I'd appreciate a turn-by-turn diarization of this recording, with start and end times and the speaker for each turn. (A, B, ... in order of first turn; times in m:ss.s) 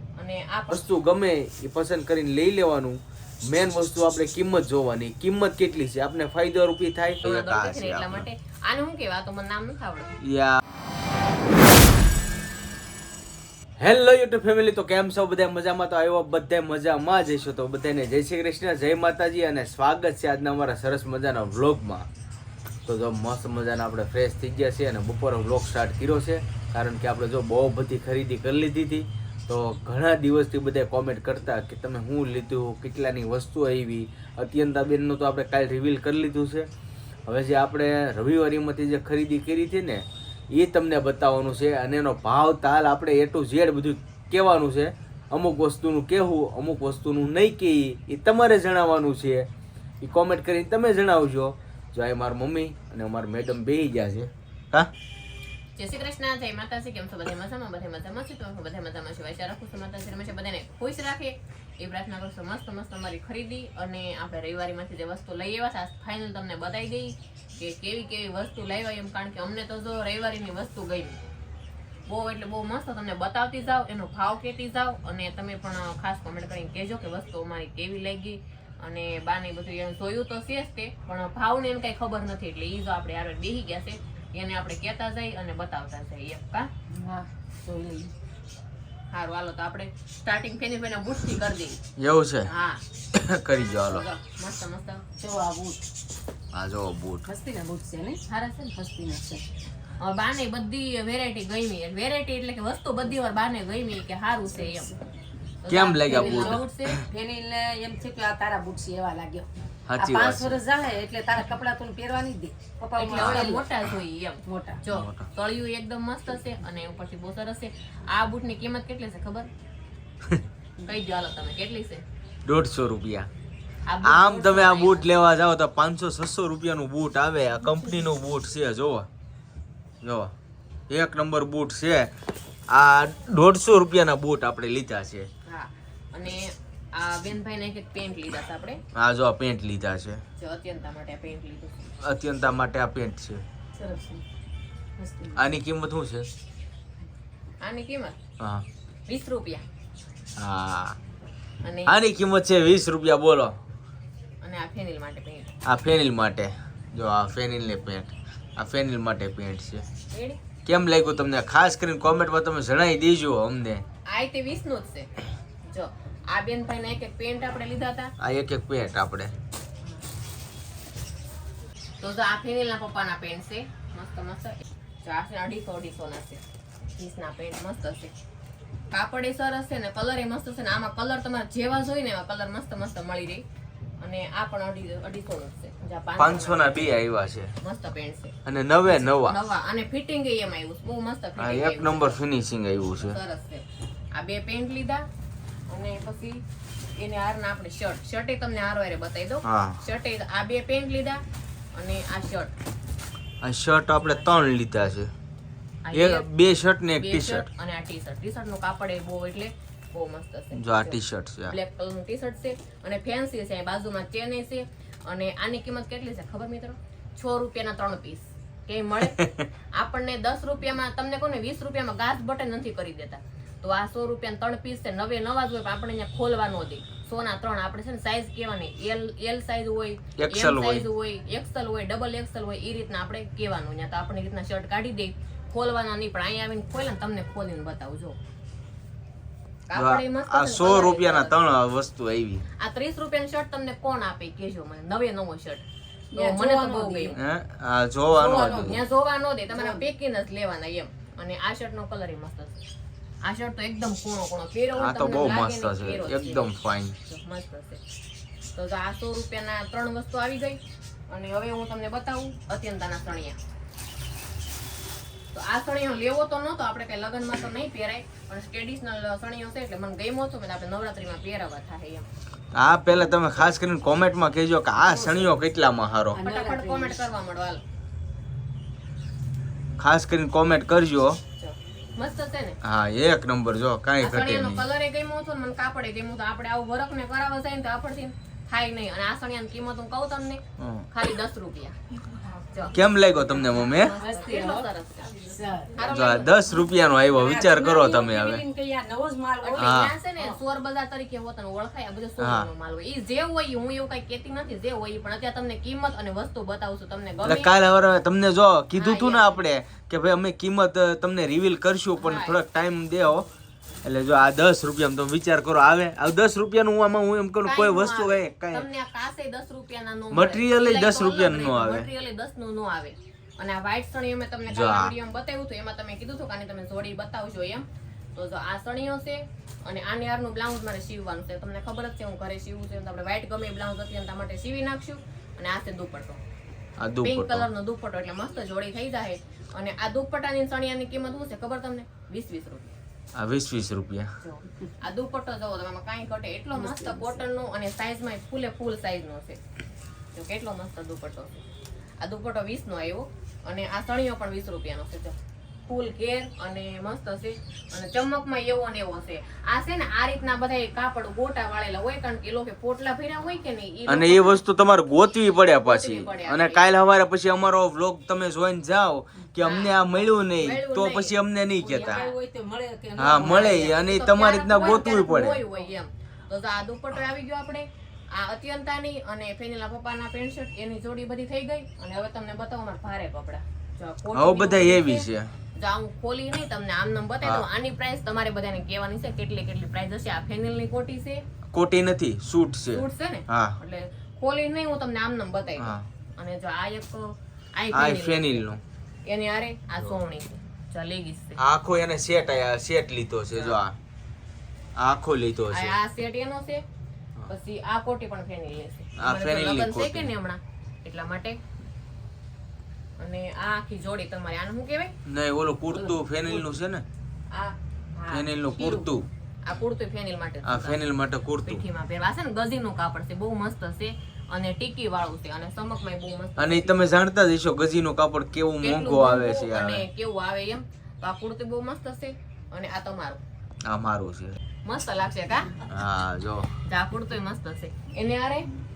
0:00.2-0:00.8 A
0:00.7-0:08.3 B
0:07.2-0:10.1 A
0:10.2-0:10.6 B
0:13.8-0:22.0 B
0:22.9-0:36.7 B
0:37.3-0:49.5 B
0:50.0-0:54.9 B
0:55.8-1:11.2 A
1:12.1-1:26.7 A
1:26.9-1:28.1 C
1:29.1-1:31.8 A
1:32.0-1:32.5 B
1:32.5-1:32.8 A
1:33.1-1:34.1 B
1:33.8-1:35.0 A
1:35.2-1:35.8 C
1:36.5-1:37.3 B
1:37.2-1:38.2 C
1:38.3-1:38.8 A
1:38.7-1:39.4 C
1:40.0-1:44.9 A
1:44.5-1:45.0 C
1:45.6-1:47.0 A
1:45.7-1:47.0 B
1:46.1-1:53.6 C
1:49.9-1:50.6 B
1:53.0-1:59.5 A
1:53.1-1:53.9 B
1:54.4-1:54.8 C
1:54.9-1:55.2 B
2:00.8-2:02.0 A
2:02.4-2:03.3 B
2:03.9-2:05.1 A
2:04.0-2:09.1 B
2:10.0-2:10.3 B
2:10.9-2:12.1 B
2:12.7-2:15.3 B
2:15.5-2:18.8 A
2:18.9-2:20.2 B
2:20.4-2:21.9 A
2:22.0-2:23.4 B
2:23.8-2:24.2 C
2:25.0-2:25.4 C
2:25.3-2:26.3 B
2:27.6-2:28.2 A
2:28.4-2:28.6 B
2:29.1-2:29.6 A
2:30.4-2:31.0 B
2:31.6-2:32.0 A
2:31.9-2:33.5 B
2:34.4-2:35.5 A
2:35.7-2:39.8 B
2:40.1-2:40.4 A
2:40.7-2:43.8 B
2:44.1-2:45.1 A
2:45.7-2:48.1 A
2:48.2-2:49.3 B
2:52.0-2:56.4 A
2:57.0-2:58.1 A
2:58.9-3:03.4 A
3:04.0-3:07.0 A
3:06.2-3:07.5 B
3:07.6-3:08.3 A
3:08.4-3:09.4 B
3:08.8-3:12.2 A
3:11.4-3:13.2 B
3:13.0-3:15.1 A
3:15.7-3:16.4 A
3:17.0-3:21.2 A
3:19.4-3:19.8 B
3:21.8-3:22.5 A
3:23.4-3:25.1 B
3:25.8-3:26.2 A
3:25.9-3:27.5 B
3:27.0-3:39.2 A
3:30.6-3:31.6 B
3:39.2-3:39.4 B
3:39.8-3:58.2 A
3:50.2-3:50.8 B
3:59.7-4:01.4 A
3:59.8-4:02.4 B
4:02.6-4:05.6 A
4:06.1-4:07.2 C
4:06.2-4:07.2 A
4:07.2-4:08.8 B
4:08.1-4:12.6 A
4:09.5-4:09.8 C
4:13.2-4:16.5 A
4:14.8-4:17.0 B
4:17.1-4:17.8 A
4:18.6-4:23.4 A
4:25.3-4:32.0 A
4:32.6-4:36.2 B
4:34.8-4:35.3 C
4:36.1-4:37.0 C
4:36.2-4:37.6 A
4:39.8-4:41.2 B
4:41.4-4:42.6 A
4:42.6-4:44.7 B
4:44.0-4:51.8 A
4:50.6-4:50.9 B
4:52.4-4:52.8 A
4:52.7-4:53.9 B
4:53.5-4:55.2 A
4:53.8-4:54.7 C
4:55.3-4:55.8 C
4:55.8-4:56.3 A
4:55.8-4:58.4 B
4:57.1-5:00.4 C
4:59.4-5:07.5 A
4:59.6-4:59.9 B
5:02.2-5:02.5 B
5:07.2-5:13.3 B
5:08.7-5:09.4 A
5:12.0-5:12.4 A
5:13.8-5:18.7 B
5:17.4-5:36.2 A
5:20.1-5:21.9 B
5:24.5-5:24.9 B
5:36.8-5:37.5 B
5:37.0-5:42.8 A
5:43.2-5:44.1 B
5:44.2-5:49.4 A
5:46.6-5:47.2 C
5:50.1-5:51.5 A
5:52.0-5:55.2 A
5:55.7-6:04.4 A
6:03.9-6:12.1 B
6:05.6-6:06.6 A
6:09.4-6:12.1 A
6:11.6-6:13.8 C
6:13.0-6:15.4 B
6:13.1-6:25.1 A
6:14.5-6:15.7 C
6:24.1-6:25.3 B
6:25.6-6:31.2 A
6:31.5-6:33.6 B
6:32.7-6:38.4 A
6:35.6-6:35.8 B
6:37.7-6:38.6 B
6:39.1-6:41.4 A
6:41.4-6:43.8 B
6:44.8-6:45.8 B
6:45.5-6:46.6 A
6:47.3-6:51.4 A
6:49.0-6:50.1 B
6:53.0-6:54.9 A
6:55.1-6:56.8 B
6:55.8-6:56.4 C
6:57.3-6:58.9 A
6:58.1-6:59.0 B
6:59.4-7:00.8 A
7:00.4-7:01.6 B
7:01.4-7:07.0 A
7:06.4-7:09.9 B
7:08.6-7:13.2 A
7:13.7-7:14.4 B
7:14.6-7:15.6 A
7:15.7-7:16.5 B
7:16.7-7:18.5 A